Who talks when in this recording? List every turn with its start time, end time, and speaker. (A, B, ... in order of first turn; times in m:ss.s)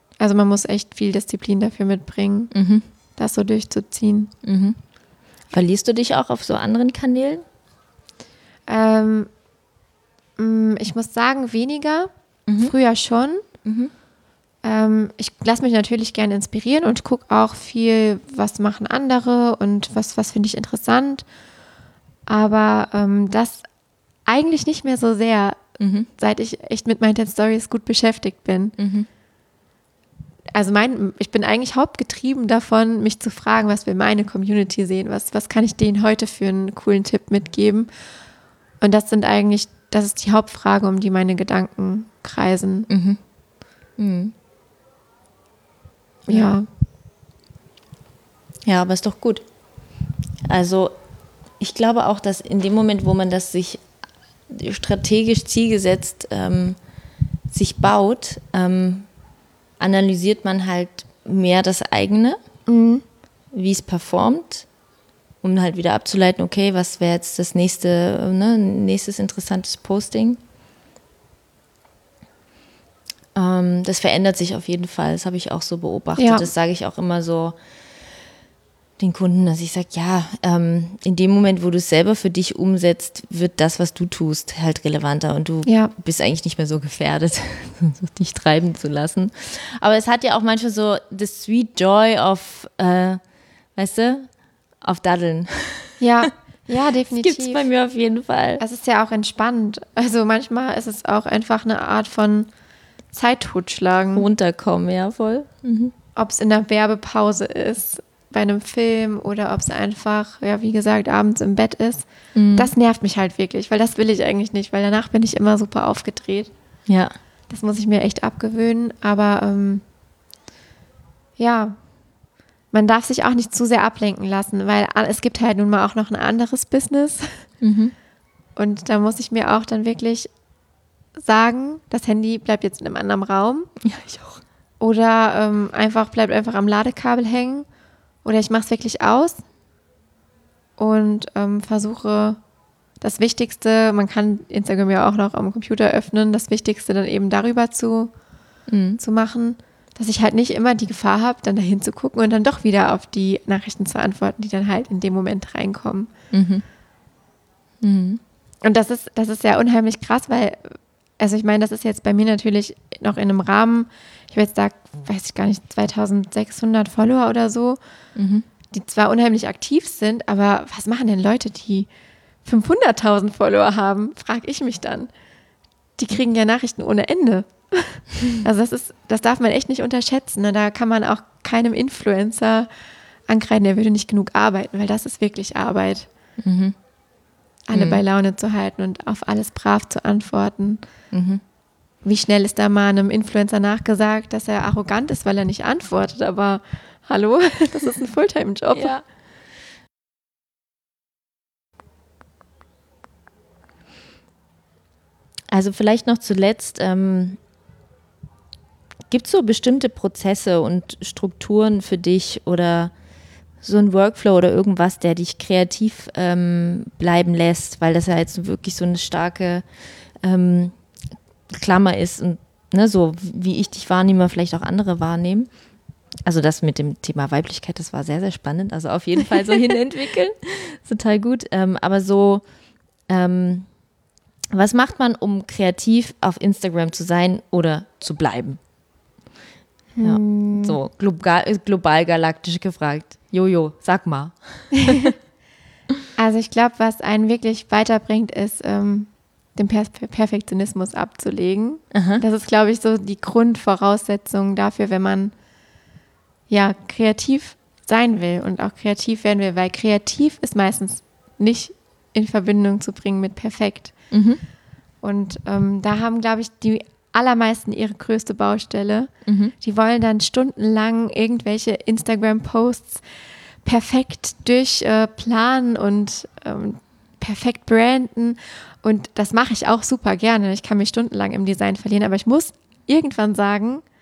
0:00.2-0:02.5 A
0:02.5-0:02.8 B
0:03.2-0:04.3 A
0:04.4-0:04.8 B
0:05.5-0:07.4 B
0:08.7-0:09.3 A
0:10.4-0:13.4 A
0:12.5-0:12.7 B
0:13.6-0:13.9 B
0:14.6-0:21.2 A
0:22.3-0:23.6 A
0:24.2-0:25.6 A
0:25.8-0:26.1 B
0:26.2-0:28.7 A
0:28.8-0:29.1 B
0:30.5-0:37.9 A
0:38.8-0:42.9 A
0:42.9-0:43.2 B
0:44.0-0:44.3 B
0:46.3-0:46.5 B
0:46.3-0:46.7 A
0:48.6-0:49.4 B
0:50.5-0:50.9 B
0:51.6-0:53.8 B
0:54.5-0:56.8 B
0:57.5-0:59.0 B
0:59.8-1:02.4 B
1:02.7-1:03.0 A
1:03.5-1:04.6 B
1:05.4-1:10.4 B
1:13.3-1:17.6 B
1:16.2-1:16.5 A
1:19.0-1:33.2 B
1:25.6-1:25.9 A
1:33.8-1:34.3 B
1:34.8-1:36.0 B
1:36.0-1:37.6 A
1:37.2-1:38.6 B
1:38.6-1:42.5 A
1:43.1-1:44.2 A
1:44.1-1:45.9 B
1:46.2-1:56.5 A
1:52.3-1:52.7 B
1:56.9-1:57.1 B
1:57.5-1:59.8 A
2:01.4-2:01.8 A
2:02.7-2:07.4 A
2:07.6-2:07.9 B
2:08.6-2:10.3 A
2:11.2-2:13.7 A
2:13.8-2:14.4 B
2:14.8-2:17.6 A
2:18.2-2:19.4 A
2:20.8-2:22.4 A
2:23.0-2:28.1 A
2:28.7-2:29.0 B
2:29.0-2:36.1 A
2:36.3-2:36.6 B
2:37.8-2:38.2 B
2:38.6-2:47.8 A
2:48.1-2:48.4 B
2:48.7-2:51.9 A
2:52.4-2:55.1 A
2:56.0-3:02.7 A
3:03.3-3:06.1 A
3:06.4-3:06.7 B
3:07.7-3:10.8 A
3:07.7-3:08.0 B
3:11.1-3:11.4 B
3:12.0-3:19.0 A
3:18.7-3:19.0 B
3:25.5-3:27.4 B
3:29.1-3:32.9 B
3:33.6-3:39.6 B
3:40.2-3:40.8 B
3:41.5-3:45.5 B
3:46.2-3:52.4 B
3:53.1-3:53.7 B
3:54.5-3:58.6 B
4:00.0-4:00.8 A
4:00.0-4:05.1 B
4:04.7-4:05.1 A
4:06.2-4:15.3 A
4:11.9-4:12.2 B
4:16.5-4:23.9 A
4:24.1-4:24.4 B
4:25.0-4:29.1 A
4:29.2-4:29.5 B
4:29.6-4:33.0 A
4:33.6-4:43.8 A